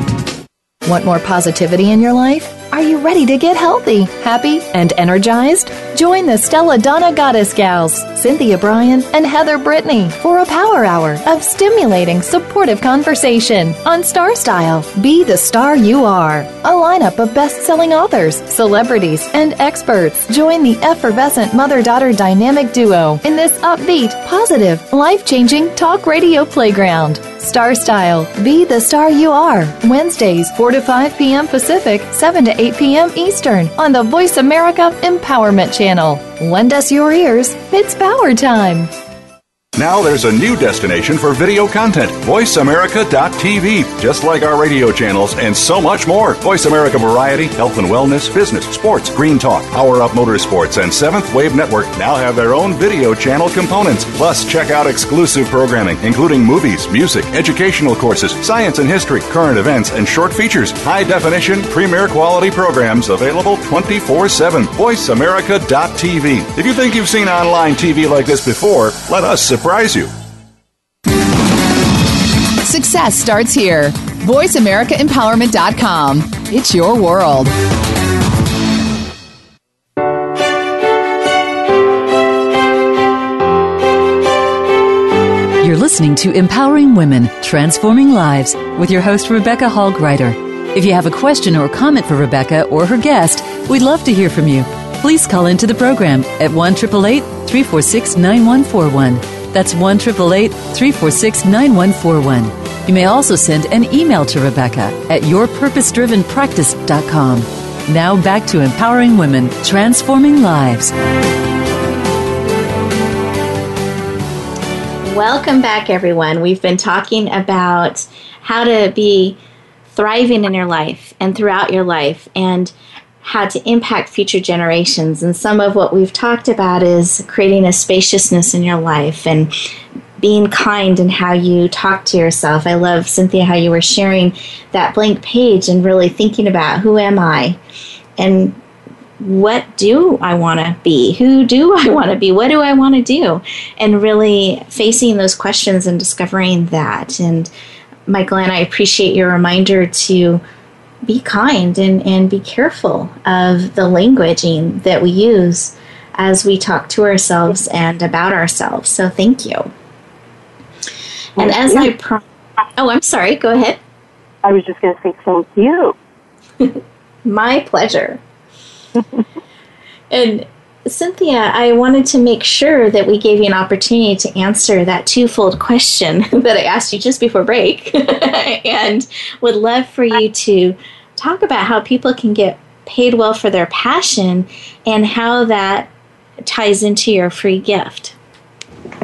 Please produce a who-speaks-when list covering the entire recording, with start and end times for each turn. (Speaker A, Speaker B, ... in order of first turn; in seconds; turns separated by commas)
Speaker A: 0.8-38.9, Speaker B: 39.8-70.1, Speaker C: 72.6-77.5, Speaker D: 85.6-110.9, Speaker E: 115.0-119.4, Speaker E: 119.9-129.5, Speaker E: 130.2-137.6, Speaker E: 138.2-138.6, Speaker E: 139.2-147.5, Speaker E: 148.1-150.4, Speaker E: 151.1-159.7, Speaker E: 161.4-162.2, Speaker F: 161.4-161.8, Speaker E: 162.8-163.8, Speaker F: 164.4-165.9, Speaker E: 166.6-168.2, Speaker E: 170.1-185.9, Speaker E: 186.4-188.2